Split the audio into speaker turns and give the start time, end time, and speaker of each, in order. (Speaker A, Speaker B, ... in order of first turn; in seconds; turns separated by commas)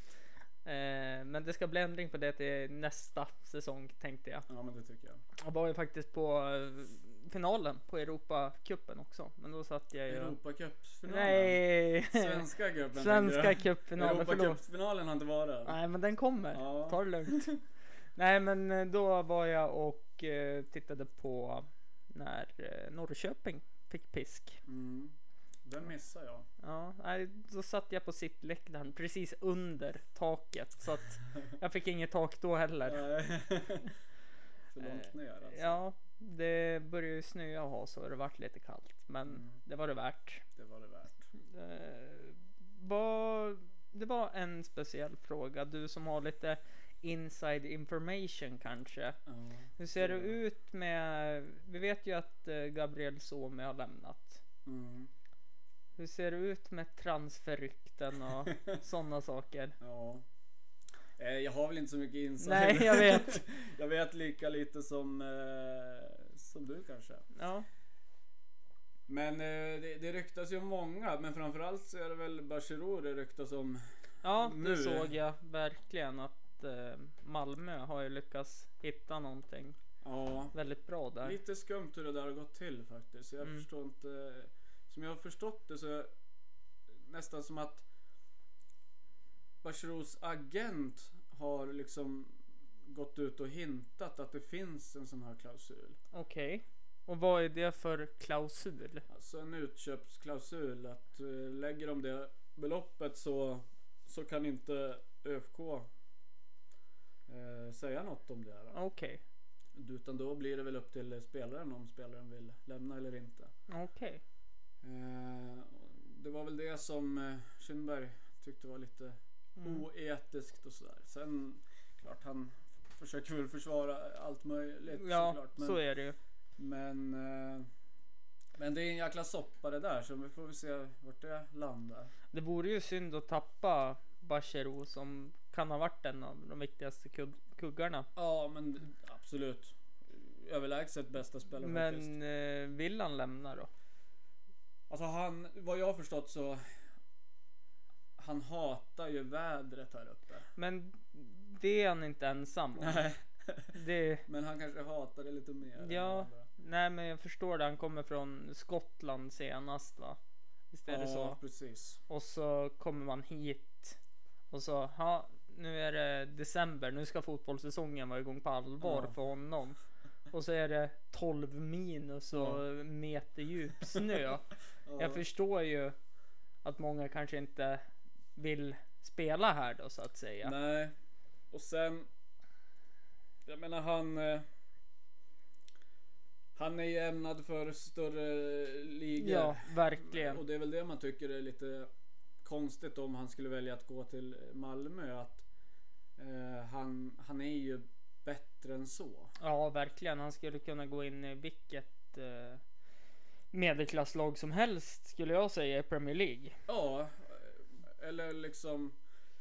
Speaker A: 0.6-4.5, Speaker B: 4.5-5.2, Speaker A: 5.4-10.3, Speaker B: 10.1-15.8, Speaker A: 11.1-14.6, Speaker A: 15.7-17.5, Speaker B: 16.5-17.6, Speaker A: 18.1-24.6, Speaker B: 24.6-26.5, Speaker A: 26.6-33.0, Speaker B: 32.9-33.9, Speaker B: 34.7-35.8, Speaker A: 34.8-40.4, Speaker B: 39.3-39.6, Speaker B: 40.5-41.3, Speaker A: 41.4-49.2, Speaker B: 49.2-50.4, Speaker A: 49.8-54.4, Speaker B: 54.6-55.1, Speaker A: 56.0-59.8, Speaker B: 58.4-58.7, Speaker B: 59.8-60.2, Speaker B: 61.2-67.3, Speaker A: 62.4-63.4, Speaker A: 67.3-67.7, Speaker B: 69.1-75.1, Speaker A: 74.2-79.8, Speaker B: 80.0-80.5, Speaker A: 80.5-81.4, Speaker B: 81.2-86.1, Speaker B: 87.0-87.8, Speaker B: 89.6-96.0, Speaker A: 96.1-99.0, Speaker B: 99.1-105.9, Speaker B: 107.3-108.8, Speaker A: 108.7-109.2, Speaker B: 109.8-113.5, Speaker A: 113.7-114.2, Speaker B: 114.8-125.8, Speaker A: 119.6-119.8, Speaker A: 124.9-126.2, Speaker B: 126.6-127.7, Speaker B: 128.6-132.1, Speaker A: 132.3-138.1, Speaker B: 138.2-142.2, Speaker A: 141.6-143.7, Speaker B: 144.9-146.6, Speaker B: 148.2-150.5, Speaker A: 150.6-153.0, Speaker B: 152.8-156.5, Speaker A: 153.7-154.2, Speaker A: 155.8-160.2, Speaker A: 160.7-161.4, Speaker B: 160.9-162.0, Speaker A: 162.1-164.0, Speaker A: 164.5-169.8, Speaker B: 168.8-169.2, Speaker A: 170.3-175.9, Speaker B: 172.3-172.6, Speaker B: 174.8-175.2, Speaker A: 176.6-177.8, Speaker A: 178.3-180.5, Speaker B: 180.4-180.9, Speaker B: 181.5-182.1, Speaker B: 183.4-184.5, Speaker B: 186.5-191.9, Speaker A: 189.2-190.4, Speaker B: 192.4-195.4, Speaker B: 196.2-199.3, Speaker A: 199.4-202.6, Speaker A: 203.5-206.6, Speaker B: 206.7-209.0